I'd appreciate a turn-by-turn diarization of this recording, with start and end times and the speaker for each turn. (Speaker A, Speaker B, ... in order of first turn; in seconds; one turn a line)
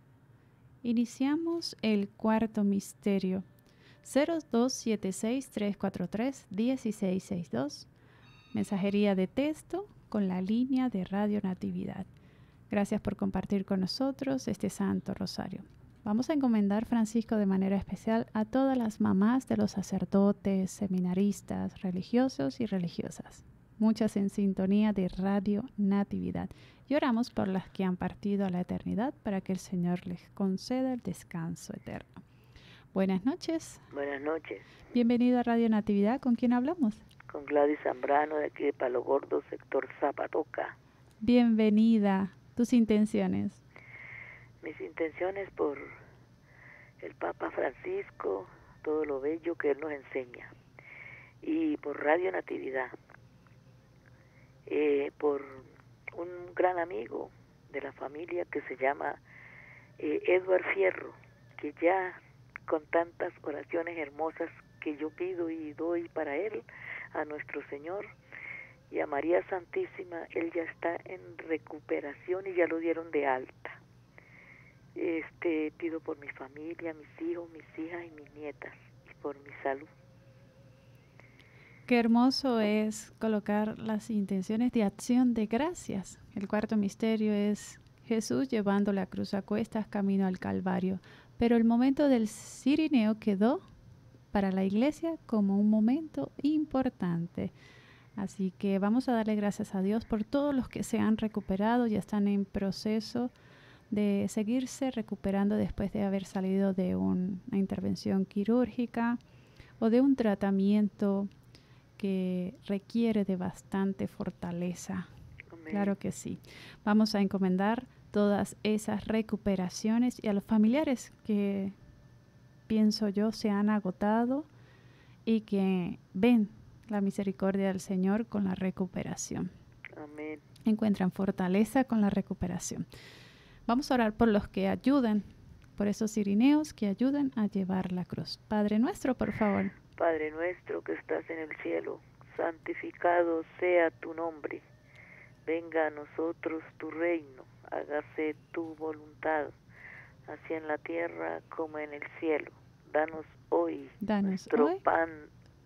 Speaker A: 0.8-3.5
Speaker A: 4.0-7.9
Speaker A: 8.5-12.1
Speaker A: 12.7-32.2
Speaker A: 32.9-33.8
Speaker B: 33.9-34.6
Speaker A: 34.9-37.0
Speaker B: 37.3-40.8
Speaker A: 41.2-43.6
Speaker B: 44.6-45.9
Speaker B: 47.0-50.5
Speaker B: 51.4-52.9
Speaker B: 54.7-59.2
Speaker B: 60.0-68.1
Speaker B: 68.9-73.8
Speaker B: 75.0-79.9
Speaker A: 81.9-93.6
Speaker A: 94.3-97.5
Speaker A: 98.2-103.3
Speaker A: 103.9-109.2
Speaker A: 109.8-111.3
Speaker A: 112.0-115.1
Speaker B: 115.5-115.9
Speaker A: 115.7-121.8
Speaker A: 122.7-124.5
Speaker A: 125.3-129.5
Speaker B: 129.9-130.4
Speaker A: 130.7-132.9
Speaker A: 133.7-139.7
Speaker B: 140.0-144.6
Speaker B: 145.4-149.6
Speaker B: 150.3-155.3
Speaker A: 154.0-154.8